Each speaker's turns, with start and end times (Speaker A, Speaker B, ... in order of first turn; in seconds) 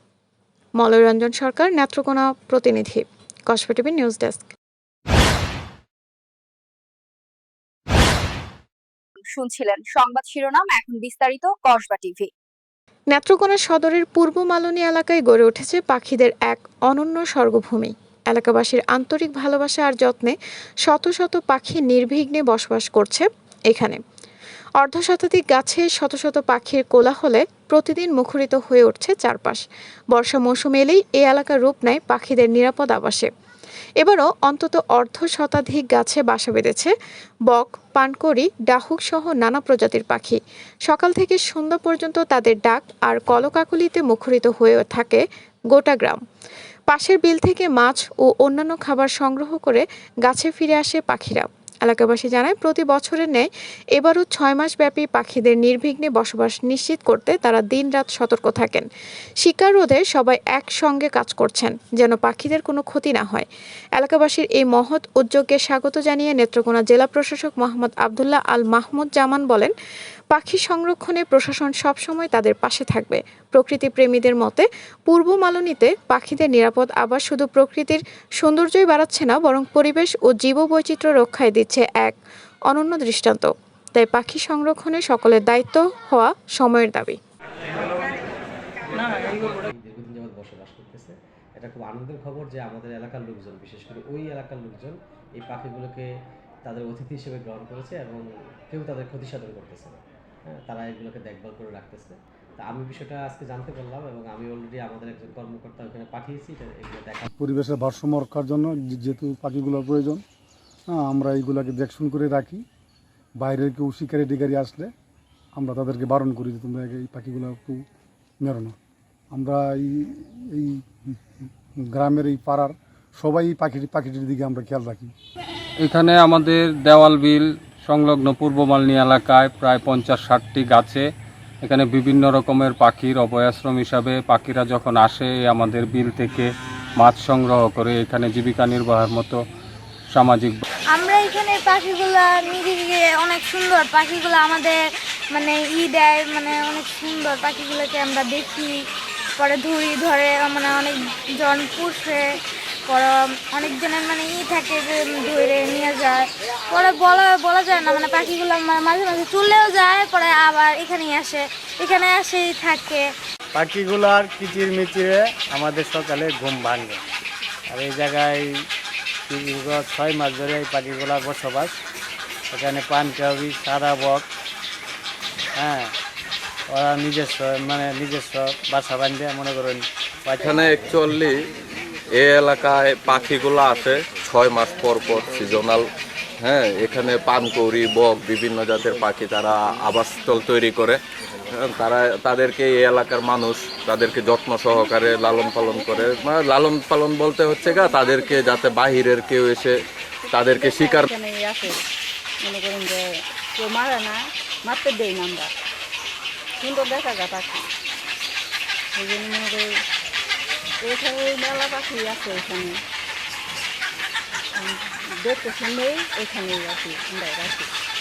Speaker A: 0.8-4.5, 13.1-20.3, 20.9-24.0, 24.8-33.3, 34.0-36.9, 37.5-46.2, 46.9-58.9, 59.4-69.7, 70.3-87.2
Speaker B: 9.3-12.3
Speaker C: 89.0-96.1, 96.6-107.3
Speaker D: 107.3-110.2, 110.9-112.6, 113.4-114.9, 115.5-117.8, 118.4-118.8, 119.3-125.1
Speaker E: 125.8-131.1, 131.6-139.4, 140.1-140.6
Speaker F: 141.0-144.7, 145.4-148.7, 150.2-150.9, 155.2-156.0, 156.7-159.3, 159.8-160.5, 163.5-167.0, 167.7-168.5, 169.3-171.8, 172.5-174.3, 175.6-175.9, 176.7-180.5
Speaker G: 141.4-144.7, 145.4-146.5, 147.1-148.2, 149.4-150.9, 151.4-152.2, 153.6-154.8, 155.3-156.2, 157.0-163.0
Speaker H: 180.4-181.4, 182.1-201.1
Speaker I: 195.1-196.3, 197.6-198.8, 200.3-201.8, 202.4-205.5, 206.6-207.7, 208.9-209.7, 210.8-212.8, 214.6-217.7